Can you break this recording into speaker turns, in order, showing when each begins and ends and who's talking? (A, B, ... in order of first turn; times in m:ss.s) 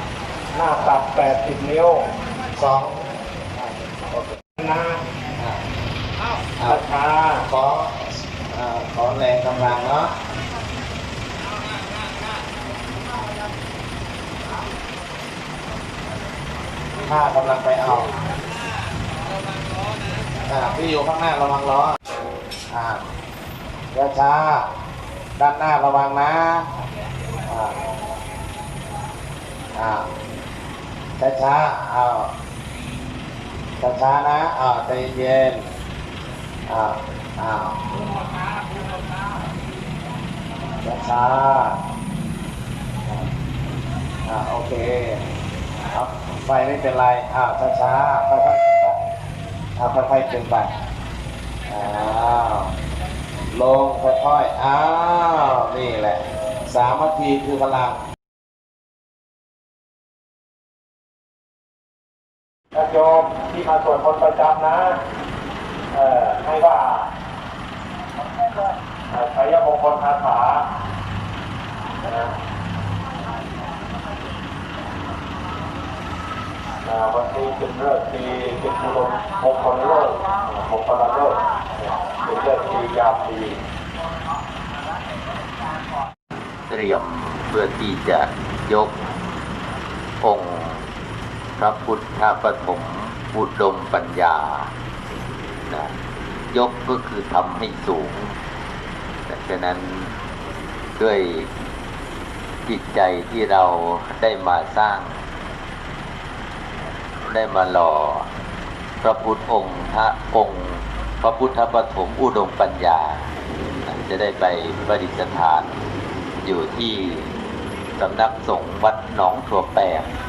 0:00.5-0:02.1 A
0:02.6-0:03.0 B
0:03.6-0:04.4 B
0:04.6-0:05.0 A
0:06.7-0:07.4 A
0:07.5-0:10.1 B
0:17.0-0:18.1 B
0:20.5-0:22.0 B
0:22.7-0:23.0 B
0:23.9-0:24.7 B
0:25.4-0:26.7 B
0:27.5-0:27.8 B
0:29.8-0:30.1 B
0:31.2-0:32.3 B
0:33.8-0:35.7 B
0:36.7-0:37.8 B
0:40.8-0:41.8 B
0:44.3-0:45.2 B
0:45.9-0:49.0 B
0:49.8-0:50.8 B
0:51.7-0:52.7 B
0:53.5-0:58.0 B
1:02.7-1:05.0 A
1:05.9-1:07.1 A
1:09.1-1:10.6 A
1:12.0-1:12.3 A
1:16.8-1:21.4 A
1:22.0-1:23.6 A
1:26.7-1:29.0 C
1:30.2-1:30.8 C
1:31.6-1:34.7 C
1:35.7-1:35.9 C
1:36.5-1:38.4 C
1:39.3-1:40.1 C
1:41.0-1:41.5 C
1:42.7-1:45.2 C
1:47.2-1:48.3 C
1:49.0-1:53.3 C
1:53.9-1:55.8 C
1:56.4-1:57.3 C
1:58.0-2:00.1 C